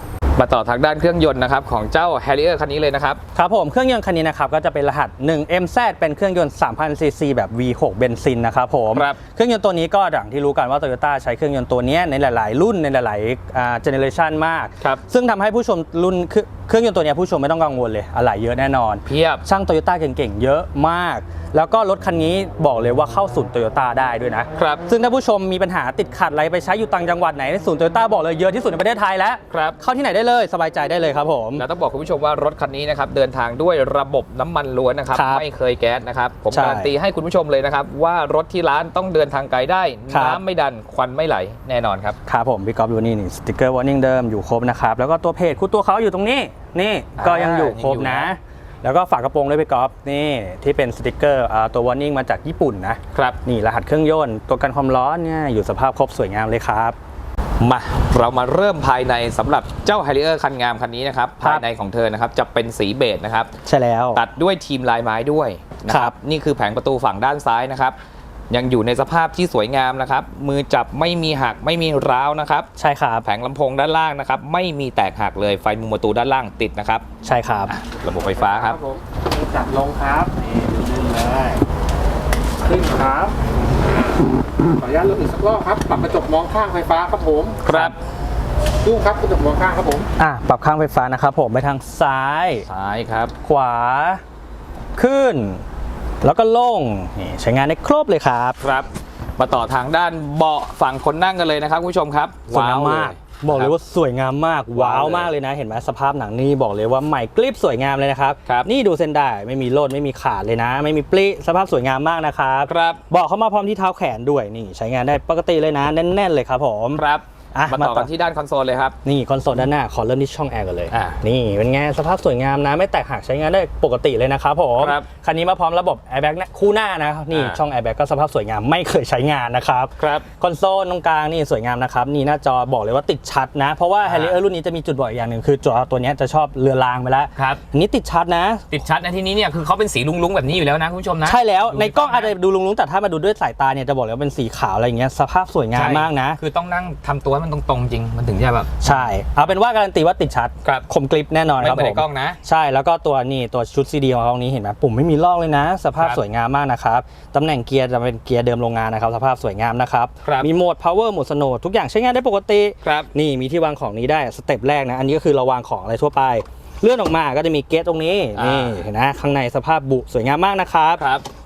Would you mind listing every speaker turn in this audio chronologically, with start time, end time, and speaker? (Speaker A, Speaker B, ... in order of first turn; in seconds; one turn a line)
Speaker A: 0.4-3.2
Speaker B: 3.4-31.6
Speaker A: 8.9-9.2
Speaker A: 19.1-19.4
Speaker A: 24.6-24.8
Speaker A: 29.5-29.8
Speaker A: 31.6-42.2
Speaker B: 35.1-35.5
Speaker B: 36.5-36.9
Speaker B: 40.1-40.4
Speaker B: 42.2-57.0
Speaker A: 47.2-48.3
Speaker A: 53.1-53.4
Speaker A: 57.6-63.5
Speaker B: 63.6-64.2
Speaker A: 64.1-68.0
Speaker B: 65.9-66.1
Speaker A: 68.5-72.7
Speaker B: 72.8-73.2
Speaker A: 73.2-77.0
Speaker B: 77.2-77.7
Speaker A: 77.7-78.8
Speaker C: 78.1-81.6
Speaker C: 82.6-84.0
Speaker C: 84.8-87.6
Speaker A: 87.6-88.0
Speaker B: 87.7-88.0
Speaker C: 88.8-90.1
Speaker B: 90.2-92.7
Speaker A: 92.7-93.3
Speaker B: 93.4-94.2
Speaker B: 95.0-95.6
Speaker B: 96.2-98.6
Speaker A: 98.6-103.7
Speaker B: 102.5-118.1
Speaker A: 104.7-105.3
Speaker A: 112.7-113.0
Speaker A: 117.0-119.0
Speaker B: 119.0-138.7
Speaker A: 120.9-121.2
Speaker A: 124.8-125.1
Speaker A: 127.3-127.6
Speaker A: 130.0-130.2
Speaker A: 134.1-134.4
Speaker A: 137.4-137.6
Speaker A: 138.7-142.3
Speaker B: 141.2-146.4
Speaker A: 145.7-149.1
Speaker B: 148.8-171.0
Speaker A: 151.6-152.4
Speaker A: 156.0-156.2
Speaker A: 160.2-160.5
Speaker A: 162.8-163.1
Speaker A: 168.4-168.8
Speaker A: 171.0-171.2